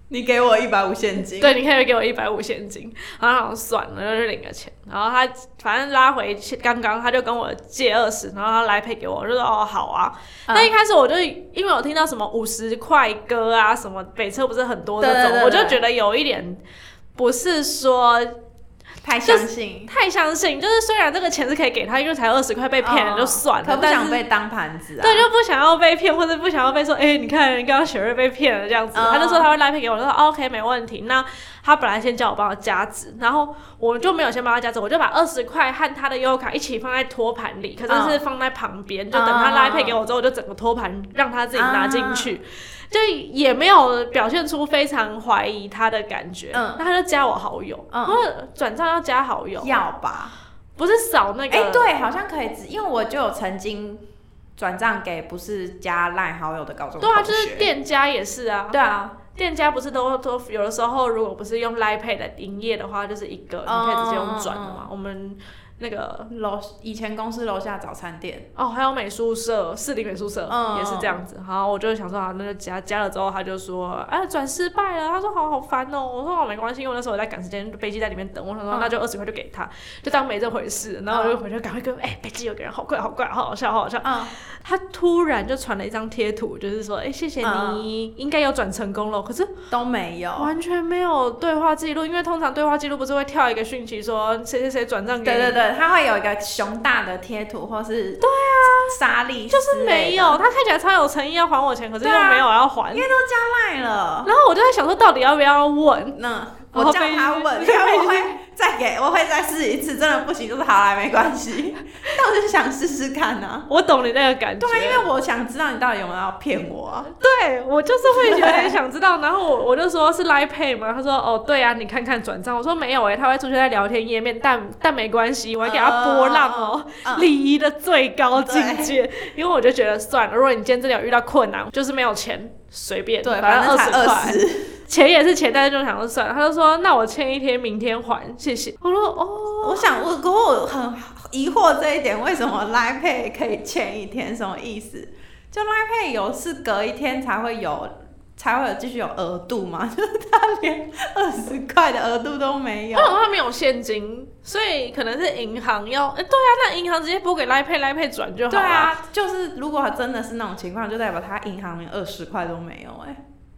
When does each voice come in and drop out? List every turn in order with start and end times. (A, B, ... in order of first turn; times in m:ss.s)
0:00.1-0:01.6 A
0:01.4-0:16.6 B
0:10.5-0:10.7 A
0:15.0-0:15.8 A
0:17.2-0:18.4 B
0:19.0-0:19.9 A
0:19.2-0:24.2 B
0:22.8-0:25.3 A
0:25.0-0:49.8 B
0:28.9-0:29.5 A
0:37.9-0:38.2 A
0:39.1-0:40.0 A
0:41.5-0:42.4 A
0:46.5-0:46.8 A
0:47.9-0:48.2 A
0:49.6-0:50.3 A
0:50.8-0:51.9 B
0:51.5-0:54.0 A
0:54.6-0:57.7 A
0:57.0-0:58.8 B
0:58.7-0:59.2 A
0:59.3-1:06.3 B
1:03.7-1:04.9 A
1:06.3-1:08.5 A
1:08.6-1:29.5 B
1:10.5-1:11.2 A
1:21.1-1:21.4 A
1:24.0-1:24.3 A
1:27.4-1:27.9 A
1:29.7-1:30.5 A
1:30.4-1:35.6 B
1:35.2-1:40.4 A
1:38.2-1:39.0 B
1:39.5-1:43.1 B
1:42.0-1:44.3 A
1:44.2-1:46.2 B
1:46.2-1:53.7 A
1:46.7-1:48.4 B
1:53.7-1:55.1 B
1:54.6-1:57.1 A
1:57.1-2:19.9 B
1:58.1-1:58.8 A
2:05.6-2:07.3 A
2:08.3-2:09.0 A
2:13.2-2:14.8 A
2:19.6-2:33.2 A
2:32.9-2:39.0 B
2:38.5-2:43.2 A